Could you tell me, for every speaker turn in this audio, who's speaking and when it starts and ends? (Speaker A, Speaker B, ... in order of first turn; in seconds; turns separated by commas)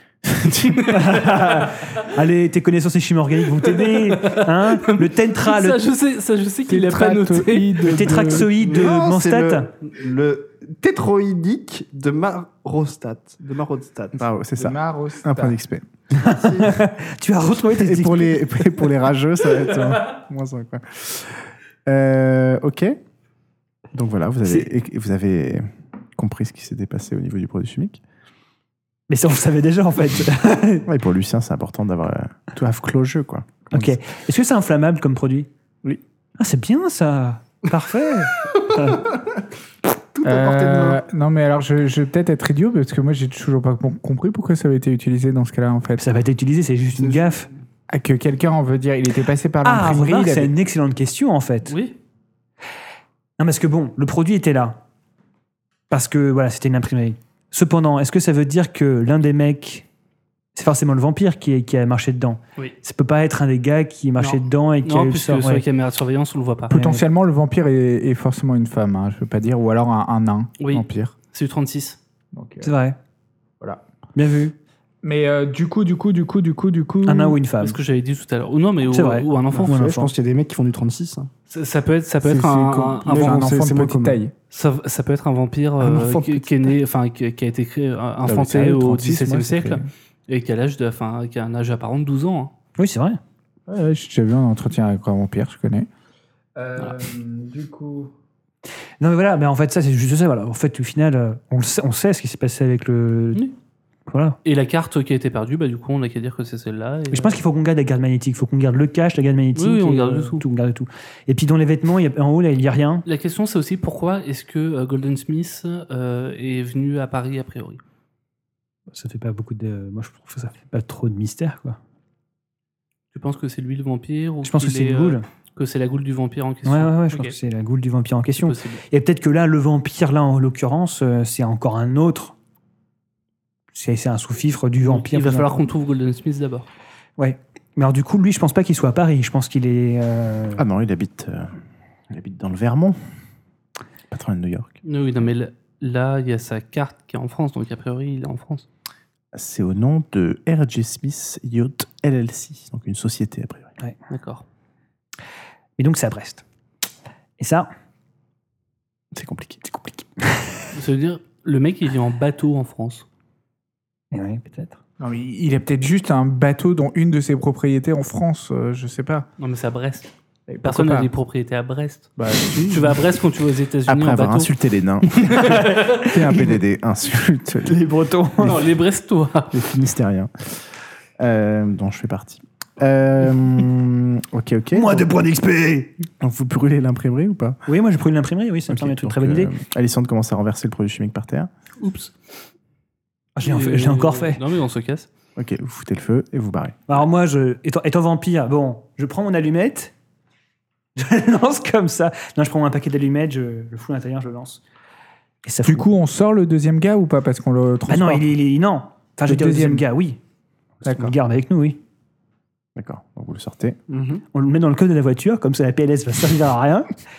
Speaker A: 0.2-1.2, Speaker B: 0.9-5.9, Speaker C: 3.8-8.3, Speaker D: 6.7-8.5, Speaker B: 7.8-9.7, Speaker E: 8.5-14.2, Speaker A: 14.2-15.9, Speaker D: 14.6-15.6, Speaker B: 16.2-18.9, Speaker E: 16.3-16.8, Speaker A: 17.7-23.0, Speaker A: 23.9-28.0, Speaker B: 29.1-30.9, Speaker A: 30.9-34.0, Speaker B: 33.7-35.5, Speaker B: 36.4-39.0, Speaker E: 38.7-39.2, Speaker E: 40.1-41.0, Speaker D: 40.2-46.0, Speaker B: 46.0-47.5, Speaker E: 47.0-47.4, Speaker D: 47.9-50.5, Speaker B: 49.6-51.8, Speaker C: 51.7-52.0, Speaker B: 53.4-54.8, Speaker B: 55.9-59.9, Speaker B: 60.5-65.7, Speaker C: 64.2-67.0, Speaker D: 66.7-71.1, Speaker C: 70.6-72.0, Speaker D: 72.3-72.7, Speaker B: 72.6-73.0, Speaker B: 74.2-74.6, Speaker D: 75.0-77.4, Speaker B: 77.0-77.8, Speaker C: 77.6-79.8, Speaker B: 78.8-80.1, Speaker E: 79.5-81.3, Speaker C: 81.5-83.4, Speaker D: 82.2-84.3, Speaker E: 83.0-84.2, Speaker C: 84.5-92.5, Speaker E: 85.8-86.7, Speaker D: 88.3-89.8, Speaker B: 92.8-93.2, Speaker D: 93.7-95.9, Speaker D: 96.5-98.1, Speaker B: 99.0-103.4, Speaker B: 104.1-104.4, Speaker C: 104.5-107.4, Speaker B: 107.1-113.0, Speaker C: 109.5-110.4, Speaker C: 113.1-117.8, Speaker B: 118.9-121.8, Speaker C: 123.1-127.3, Speaker B: 124.4-125.2, Speaker B: 126.7-132.3, Speaker C: 128.4-128.8, Speaker B: 133.7-135.6, Speaker C: 134.8-136.7, Speaker B: 137.2-140.6, Speaker A: 140.6-141.6, Speaker A: 142.1-143.0, Speaker A: 144.1-144.8, Speaker C: 144.8-148.7, Speaker A: 149.3-153.7, Speaker C: 154.1-154.4, Speaker B: 155.8-156.4, Speaker B: 157.4-157.7, Speaker A: 159.1-159.6, Speaker B: 159.7-160.7, Speaker C: 160.7-163.1, Speaker B: 164.1-164.8, Speaker D: 165.0-169.3, Speaker C: 169.4-170.1, Speaker D: 170.5-171.1, Speaker C: 170.7-174.5, Speaker D: 172.2-173.0, Speaker A: 173.9-177.8, Speaker C: 175.1-176.1, Speaker B: 175.4-176.0, Speaker B: 177.7-178.6, Speaker C: 178.4-179.6, Speaker A: 179.5-180.6, Speaker A: 181.2-185.1, Speaker B: 184.7-185.9, Speaker A: 186.2-187.6, Speaker B: 187.7-189.5, Speaker A: 188.7-191.5, Speaker C: 191.8-192.1, Speaker B: 193.4-194.4, Speaker C: 193.4-195.1, Speaker A: 195.4-196.9, Speaker B: 196.9-199.9, Speaker B: 201.0-204.6, Speaker B: 205.4-205.9, Speaker D: 205.7-208.3, Speaker B: 207.9-210.2, Speaker D: 209.3-209.9, Speaker D: 210.9-211.1, Speaker B: 210.9-211.8, Speaker A: 212.8-213.8, Speaker E: 213.9-214.2, Speaker B: 214.3-216.9